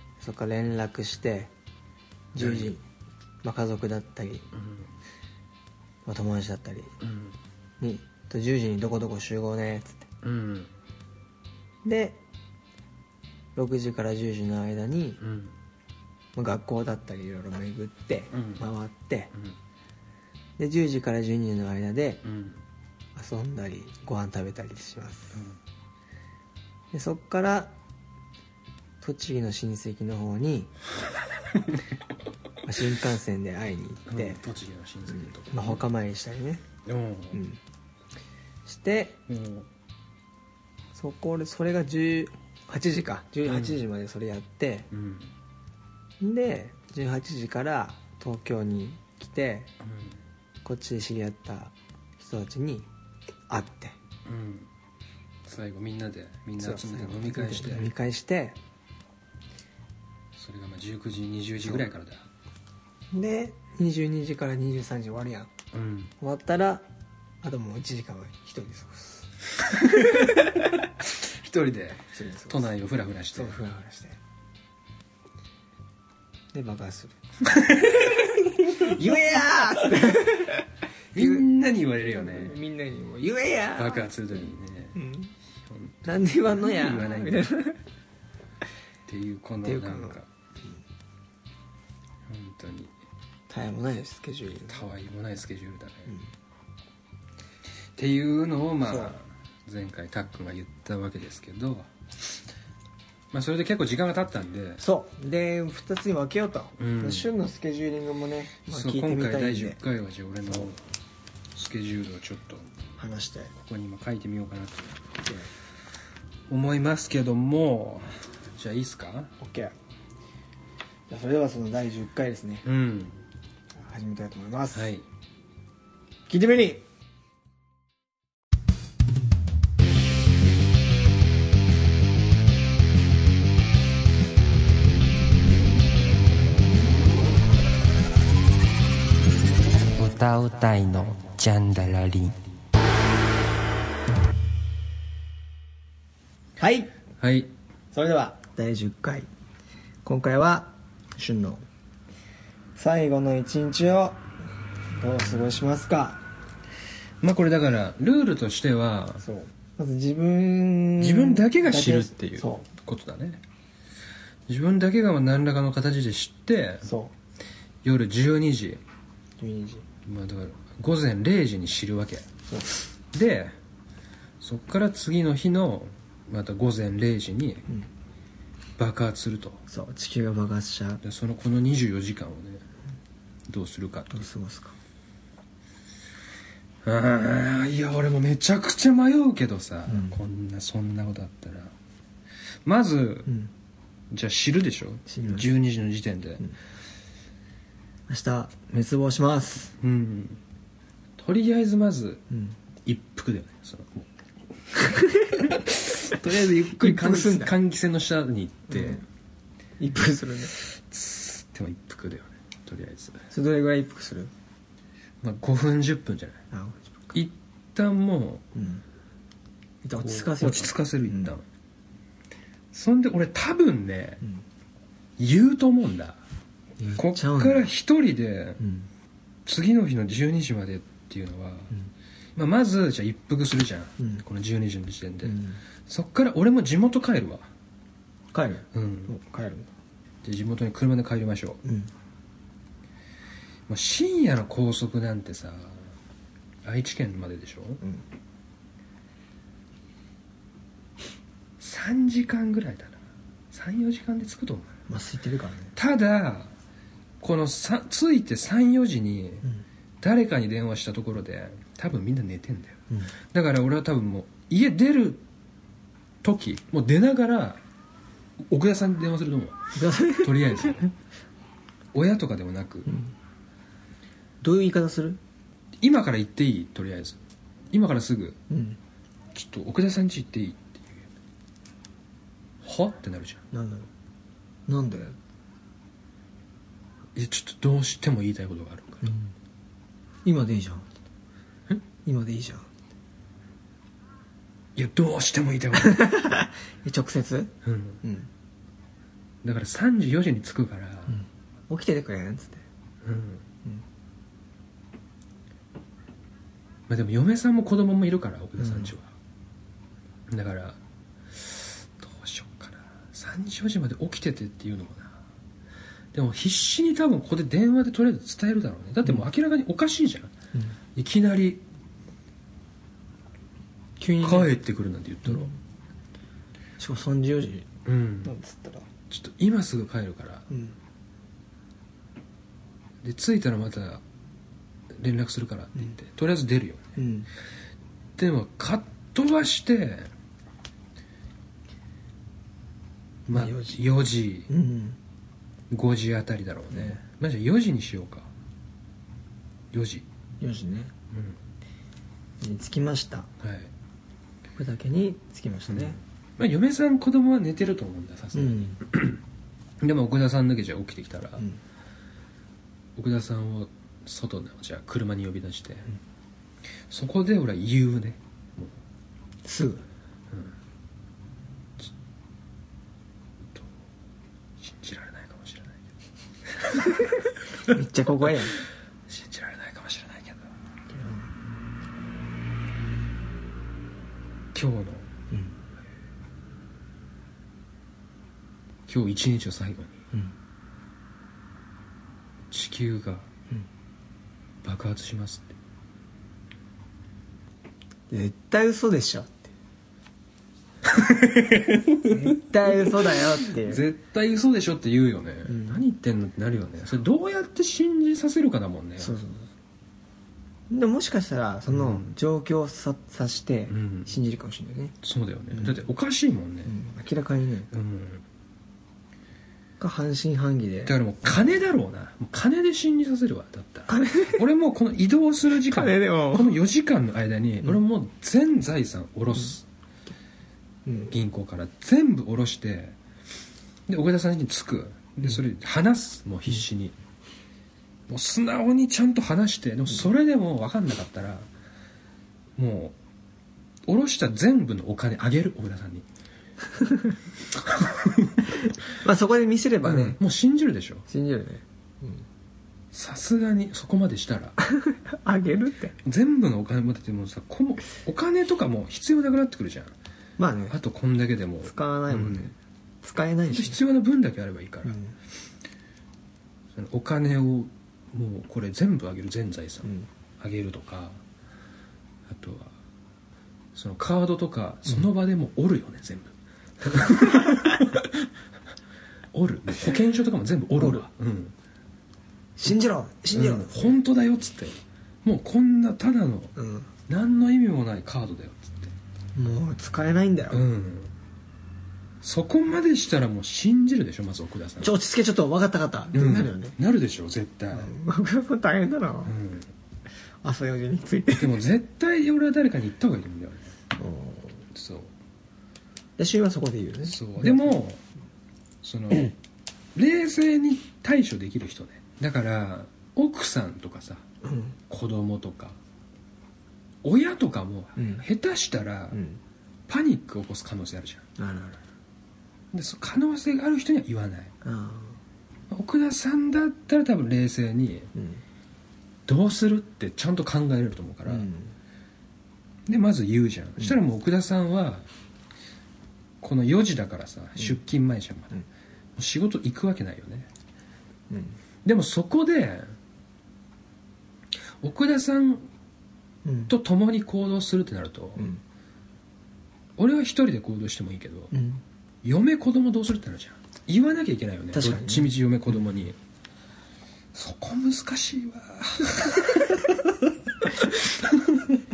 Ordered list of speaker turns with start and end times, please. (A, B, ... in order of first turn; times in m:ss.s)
0:00.2-0:01.5 A
0:02.3-0:02.8 A
0:02.4-0:02.8 B
0:03.4-0:04.5 A
0:04.5-0:04.9 B
0:06.0-0:06.9 A
0:07.0-0:07.4 B
0:07.8-0:10.1 A
0:10.2-0:10.7 B
0:11.8-0:12.2 A
0:13.6-0:15.2 A
0:15.2-0:15.5 B
0:16.4-0:19.3 A
0:18.3-0:18.6 B
0:20.6-0:22.2 A
0:22.2-0:22.6 B
0:23.2-0:25.4 A
0:26.9-0:27.7 A
0:29.0-0:30.7 A
0:32.6-0:34.4 A
0:34.1-0:35.9 B
0:35.1-0:36.6 A
0:36.8-0:37.4 B
0:37.3-0:37.6 A
0:38.7-0:39.2 A
0:39.3-0:39.7 B
0:40.9-0:44.9 A
0:43.5-0:43.8 B
0:44.9-0:45.3 B
0:46.2-0:49.7 A
0:49.8-0:50.1 B
0:50.6-0:52.9 A
0:53.5-0:54.0 A
0:54.3-0:54.7 B
0:55.4-0:57.9 B
0:56.6-0:58.6 A
1:00.4-1:02.2 B
1:03.1-1:05.5 A
1:05.7-1:06.1 B
1:06.2-1:06.9 A
1:07.4-1:10.7 A
1:09.8-1:10.5 B
1:11.0-1:13.6 B
1:12.1-1:12.7 A
1:13.3-1:14.2 A
1:16.5-1:21.5 A
1:17.6-1:17.9 B
1:21.2-1:22.6 B
1:22.0-1:24.1 A
1:23.7-1:25.0 B
1:25.0-1:25.3 A
1:25.7-1:27.5 B
1:26.0-1:27.8 A
1:29.1-1:30.3 B
1:29.6-1:30.2 A
1:32.3-1:32.9 B
1:33.5-1:34.9 A
1:34.7-1:36.1 B
1:38.0-1:41.9 B
1:38.8-1:39.1 A
1:43.3-1:44.8 B
1:44.8-1:49.8 A
1:46.8-1:47.3 B
1:48.7-1:50.8 B
1:51.5-1:52.7 B
1:53.0-1:53.5 A
1:53.6-1:55.0 B
1:56.5-1:59.3 B
1:59.4-1:59.7 A
2:01.1-2:02.7 A
2:02.6-2:03.2 B
2:03.8-2:04.9 A
2:04.7-2:05.0 B
2:06.3-2:06.8 A
2:20.0-2:22.3 C
2:26.6-2:26.9 A
2:27.2-2:27.5 B
2:27.9-2:29.3 A
2:30.0-2:31.6 A
2:32.8-2:34.2 A
2:35.0-2:36.2 A
2:37.2-2:39.2 B
2:39.2-2:42.7 A
2:41.0-2:43.4 B
2:44.5-2:46.9 B
2:46.8-2:47.2 A
2:47.8-2:48.8 B
2:49.4-2:49.8 A
2:50.0-2:52.3 B
2:53.1-2:53.6 B
2:54.4-2:57.6 B
2:58.8-2:59.6 B
2:59.7-3:01.0 A
3:01.0-3:02.6 B
3:03.5-3:04.3 B
3:04.1-3:04.8 A
3:06.8-3:11.7 B
3:09.9-3:10.2 A
3:12.6-3:13.3 B
3:14.1-3:16.4 B
3:15.1-3:15.5 A
3:18.1-3:19.7 A
3:19.8-3:20.4 B
3:21.2-3:22.2 B
3:22.3-3:22.6 A
3:22.8-3:24.1 B
3:24.8-3:27.6 A
3:25.3-3:29.0 B
3:28.7-3:29.0 A
3:29.8-3:30.5 A
3:30.6-3:33.2 B
3:33.3-3:34.3 A
3:35.2-3:36.4 B
3:36.5-3:37.2 A
3:37.1-3:38.4 B
3:38.6-3:38.8 A
3:39.8-3:41.3 A
3:40.0-3:41.4 B
3:42.7-3:44.2 B
3:45.2-3:46.2 B
3:46.8-3:47.7 A
3:47.0-3:48.6 B
3:48.6-3:48.9 A
3:49.5-3:51.7 B
3:52.4-3:57.5 B
3:54.0-3:54.2 A
3:55.2-3:55.6 A
3:58.3-3:59.7 A
3:58.7-3:59.1 B
4:00.2-4:01.6 B
4:01.6-4:01.9 A
4:03.7-4:05.8 B
4:06.6-4:07.8 B
4:11.6-4:13.0 B
4:13.5-4:14.7 B
4:14.9-4:15.7 A
4:15.8-4:16.5 B
4:17.2-4:19.5 B
4:20.0-4:22.8 B
4:23.3-4:25.2 B
4:26.2-4:27.6 B
4:28.4-4:30.9 B
4:29.8-4:30.8 A
4:31.9-4:32.9 B
4:32.9-4:33.1 A
4:34.4-4:35.2 A
4:35.8-4:37.2 B
4:37.7-4:38.4 B
4:38.5-4:38.8 A
4:39.3-4:41.1 B
4:42.6-4:43.4 B
4:43.5-4:43.9 A
4:44.7-4:45.2 A
4:47.2-4:49.1 B
4:49.0-4:49.3 A
4:50.2-4:50.9 A
4:52.0-4:52.7 A
4:54.8-4:56.1 B
4:55.7-4:58.3 A
4:57.6-4:58.0 B
4:59.4-5:01.2 B
5:01.1-5:02.6 A
5:03.0-5:03.4 B
5:06.9-5:09.1 B
5:08.6-5:08.9 A
5:10.3-5:10.8 B
5:11.3-5:15.2 B
5:16.1-5:20.3 B
5:21.0-5:21.6 B
5:24.0-5:24.5 A
5:24.2-5:25.5 B
5:25.3-5:25.6 A
5:26.8-5:27.7 A
5:27.9-5:28.3 B
5:28.2-5:28.9 A
5:29.1-5:30.5 B
5:30.5-5:30.8 A
5:33.0-5:34.0 B
5:34.9-5:36.9 B
5:37.0-5:37.3 A
5:38.2-5:40.1 B
5:43.3-5:44.5 B
5:43.3-5:43.8 A
5:44.5-5:45.0 A
5:45.7-5:48.3 B
5:49.7-5:50.1 B
5:50.4-5:50.9 A
5:51.1-5:51.4 B
5:52.4-5:53.3 A
5:53.4-5:53.7 B
5:54.6-5:56.0 A
5:55.7-5:59.2 B
5:58.3-5:58.8 A
5:59.8-6:01.4 B
6:03.0-6:05.9 B
6:06.9-6:08.7 B
6:09.4-6:09.8 A
6:14.6-6:15.8 B
6:16.5-6:17.0 B
6:17.6-6:18.6 A
6:19.1-6:20.5 B
6:20.9-6:21.3 A
6:24.5-6:25.1 B
6:28.9-6:29.9 B
6:32.5-6:33.3 B
6:34.6-6:35.6 B
6:38.1-6:39.5 A
6:40.8-6:49.2 B
6:42.1-6:43.8 A
6:45.5-6:45.8 A
6:49.0-6:49.5 A
6:50.7-6:55.0 A
6:51.7-6:52.2 B
6:53.7-6:54.1 B
6:55.0-6:56.7 B
6:55.5-6:55.8 A
6:56.7-6:57.7 A
6:57.7-6:58.2 B
6:59.8-7:01.0 A
7:00.9-7:09.6 B
7:03.9-7:04.4 A
7:05.7-7:06.6 A
7:10.9-7:11.1 A
7:11.1-7:13.0 B
7:13.9-7:17.0 B
7:18.1-7:21.5 B
7:22.6-7:23.0 B
7:23.9-7:26.1 B
7:26.7-7:27.2 A
7:27.6-7:28.5 B
7:28.9-7:30.2 A
7:29.8-7:31.1 B
7:31.1-7:32.2 A
7:32.9-7:34.6 B
7:34.6-7:36.0 A
7:36.0-7:39.9 B
7:40.4-7:40.8 A
7:40.7-7:42.5 B
7:41.6-7:43.8 A
7:43.5-7:45.0 B
7:44.8-7:45.2 A
7:46.8-7:51.2 B
7:52.3-7:52.7 B
7:53.7-7:58.2 B
7:59.3-8:01.5 B
8:00.8-8:01.0 A
8:02.6-8:03.9 A
8:03.3-8:06.5 B
8:06.6-8:06.9 A
8:07.1-8:08.9 B
8:09.4-8:10.7 A
8:10.5-8:11.1 B
8:12.2-8:14.9 B
8:14.8-8:16.8 A
8:16.1-8:17.9 B
8:17.7-8:19.3 A
8:19.3-8:19.7 B
8:20.4-8:21.6 A
8:21.4-8:23.7 B
8:24.0-8:24.6 A
8:24.7-8:25.1 B
8:26.2-8:27.8 A
8:27.1-8:28.0 B
8:28.8-8:29.3 B
8:30.0-8:34.2 B
8:34.4-8:34.8 A
8:34.9-8:35.8 B
8:37.0-8:39.2 B
8:38.0-8:38.2 A
8:39.1-8:39.4 A
8:39.9-8:41.2 B
8:41.4-8:41.8 A
8:42.7-8:44.5 B
8:44.6-8:45.2 A
8:45.7-8:48.1 B
8:48.2-8:48.4 A
8:49.3-8:51.5 B
8:51.3-8:51.8 A
8:52.9-8:55.1 B
8:56.4-8:58.6 B
8:59.2-9:00.5 B
9:01.3-9:01.6 A
9:01.8-9:03.0 B
9:04.8-9:05.7 B
9:06.4-9:06.7 A
9:06.7-9:08.5 B
9:10.0-9:11.5 B
9:11.5-9:11.8 A
9:12.2-9:16.2 B
9:14.7-9:15.3 A
9:17.3-9:21.8 B